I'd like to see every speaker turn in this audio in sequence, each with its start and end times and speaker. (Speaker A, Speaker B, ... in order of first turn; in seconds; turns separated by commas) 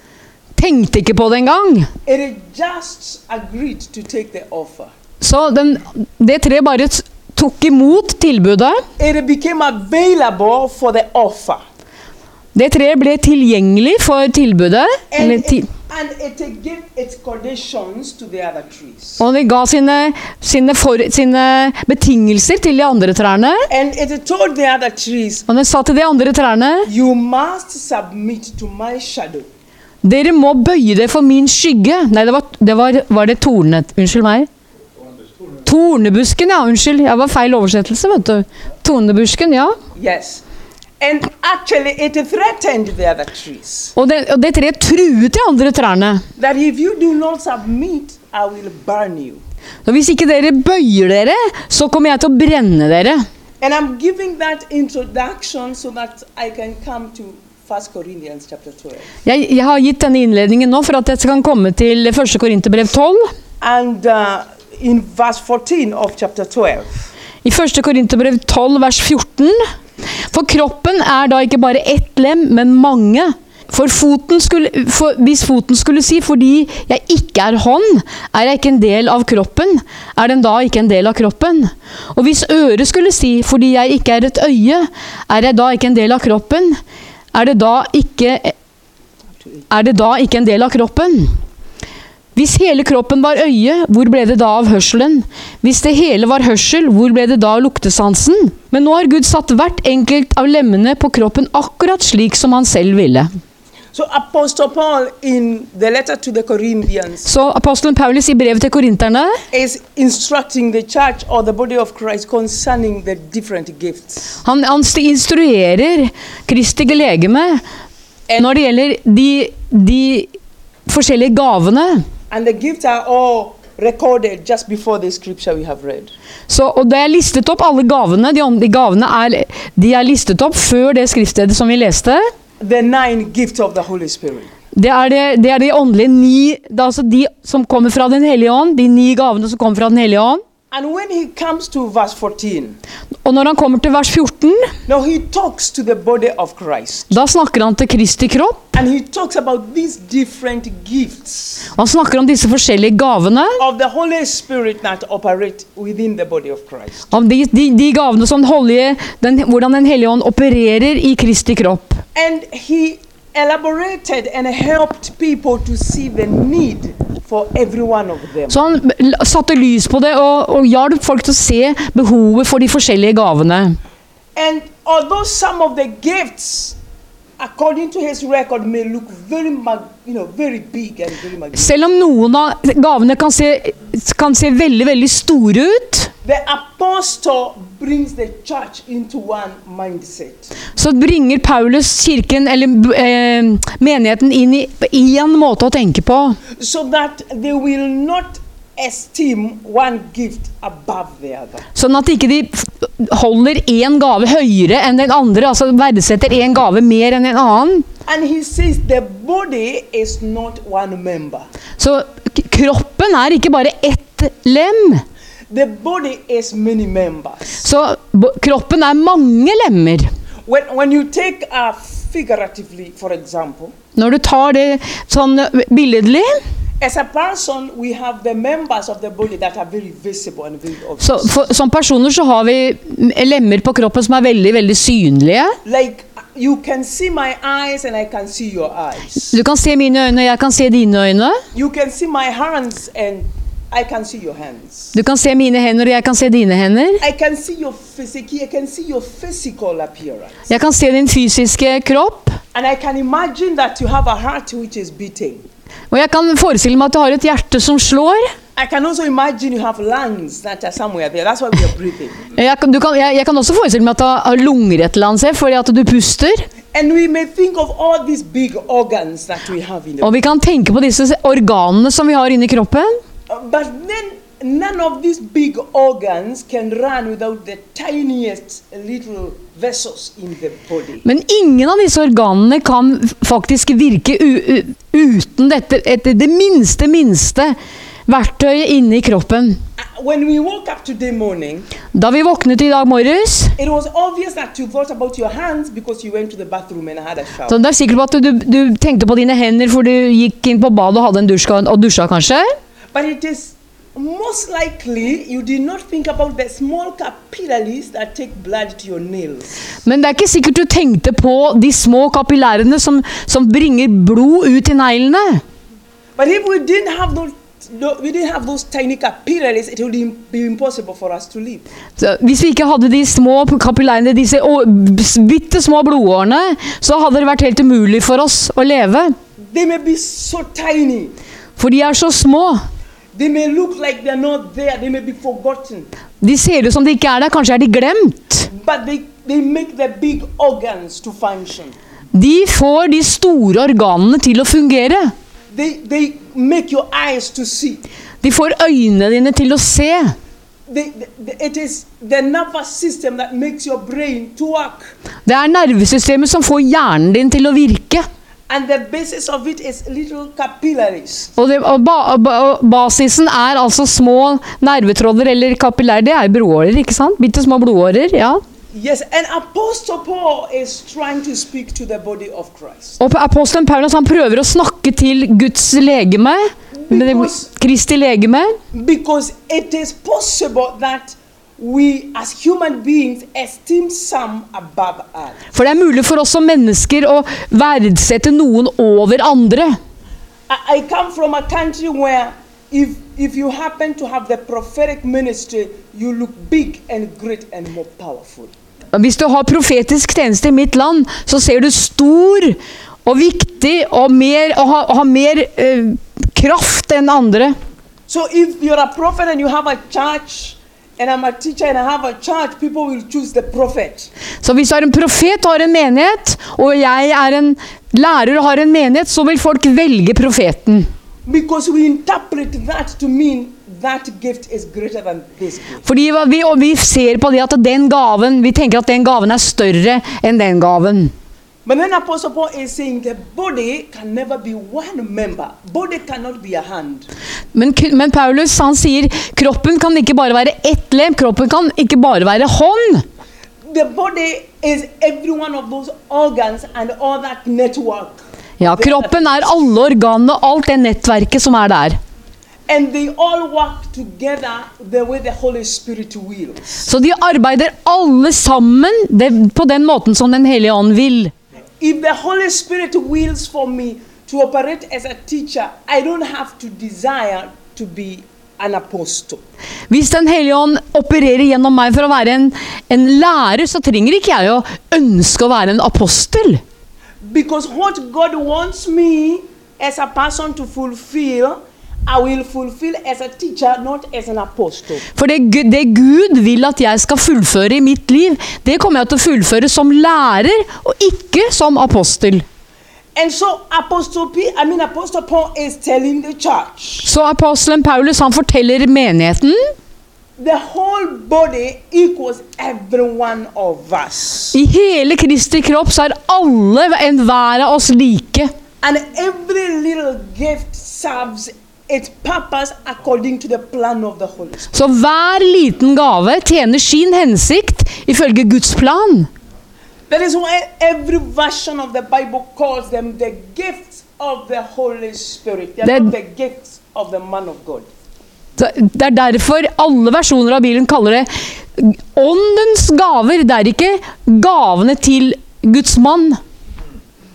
Speaker A: 0.6-1.9, Speaker B: 2.0-4.9, Speaker A: 5.2-8.8, Speaker B: 9.0-11.6, Speaker A: 12.5-15.7, Speaker B: 15.1-19.2, Speaker A: 19.2-23.7, Speaker B: 23.7-25.5, Speaker A: 25.5-26.9, Speaker B: 26.8-29.5, Speaker A: 30.0-34.5, Speaker A: 35.6-39.8, Speaker B: 39.9-40.4, Speaker B: 41.0-44.0, Speaker A: 44.0-46.2, Speaker B: 46.4-49.4, Speaker A: 49.8-53.2, Speaker B: 53.6-59.1, Speaker A: 59.2-63.2, Speaker B: 63.6-67.0, Speaker A: 67.4-69.6, Speaker A: 70.2-86.8, Speaker A: 87.3-88.5, Speaker A: 89.7-91.3, Speaker A: 92.3-103.3, Speaker B: 103.9-107.3, Speaker A: 107.2-109.4, Speaker B: 109.5-114.4, Speaker A: 114.4-117.6, Speaker A: 118.4-120.3, Speaker A: 120.9-122.0, Speaker B: 122.3-126.1, Speaker A: 126.5-132.2, Speaker B: 132.6-134.5, Speaker A: 134.7-140.4, Speaker B: 140.7-142.8, Speaker A: 143.2-144.7, Speaker B: 144.9-147.2, Speaker A: 147.1-148.8, Speaker B: 148.7-151.7, Speaker A: 151.8-153.6, Speaker B: 153.6-157.1, Speaker A: 157.1-162.0, Speaker B: 162.1-168.6, Speaker A: 168.5-173.8, Speaker B: 174.3-176.8, Speaker B: 177.4-181.8, Speaker A: 181.6-186.1, Speaker B: 186.2-190.5, Speaker A: 190.7-196.4, Speaker B: 196.6-201.7, Speaker A: 201.7-207.8, Speaker B: 208.1-211.5, Speaker A: 211.8-215.0, Speaker B: 215.5-217.6, Speaker A: 217.6-220.1, Speaker B: 220.5-223.7, Speaker A: 223.9-226.4, Speaker B: 226.8-231.4, Speaker A: 231.0-235.6, Speaker B: 235.6-239.4, Speaker A: 239.3-241.4, Speaker B: 241.5-244.9, Speaker A: 244.9-247.0, Speaker B: 247.0-250.5, Speaker A: 250.5-252.4, Speaker B: 252.5-255.4, Speaker A: 255.9-258.2, Speaker B: 258.6-262.3, Speaker A: 262.3-266.5, Speaker B: 266.7-270.2, Speaker A: 270.0-272.9, Speaker B: 273.3-281.0, Speaker A: 281.0-287.5, Speaker A: 288.1-289.6, Speaker B: 289.8-291.7, Speaker A: 291.9-293.5, Speaker B: 293.6-297.6, Speaker A: 297.5-302.4, Speaker B: 302.9-309.6, Speaker A: 309.9-315.4, Speaker B: 316.1-321.6, Speaker A: 322.0-329.1, Speaker B: 329.4-331.1, Speaker A: 331.6-332.6, Speaker B: 333.1-335.9, Speaker A: 336.2-338.5, Speaker B: 338.5-341.8, Speaker A: 342.1-345.1, Speaker B: 345.5-347.8, Speaker A: 348.2-350.1, Speaker B: 350.7-354.9, Speaker A: 355.2-358.1, Speaker B: 358.5-361.3, Speaker A: 361.4-368.4, Speaker B: 368.7-373.0, Speaker A: 373.0-378.6, Speaker B: 376.7-377.5, Speaker B: 378.7-385.4, Speaker A: 385.5-389.8, Speaker B: 390.5-398.5, Speaker A: 398.9-407.6, Speaker B: 408.1-414.1, Speaker A: 414.4-420.9, Speaker B: 421.2-425.9, Speaker A: 425.8-431.1, Speaker B: 431.6-437.1, Speaker A: 437.5-443.0, Speaker B: 443.6-449.6, Speaker A: 448.6-452.0, Speaker B: 452.7-456.8, Speaker A: 456.8-461.3, Speaker B: 461.8-469.4, Speaker A: 469.9-476.6, Speaker B: 477.2-485.1, Speaker A: 485.1-492.4, Speaker B: 493.1-497.1, Speaker A: 497.0-499.6, Speaker B: 500.4-504.6, Speaker A: 504.5-508.5, Speaker B: 508.8-514.7, Speaker A: 514.7-519.3, Speaker B: 520.1-527.9, Speaker A: 525.8-526.1, Speaker A: 528.6-536.4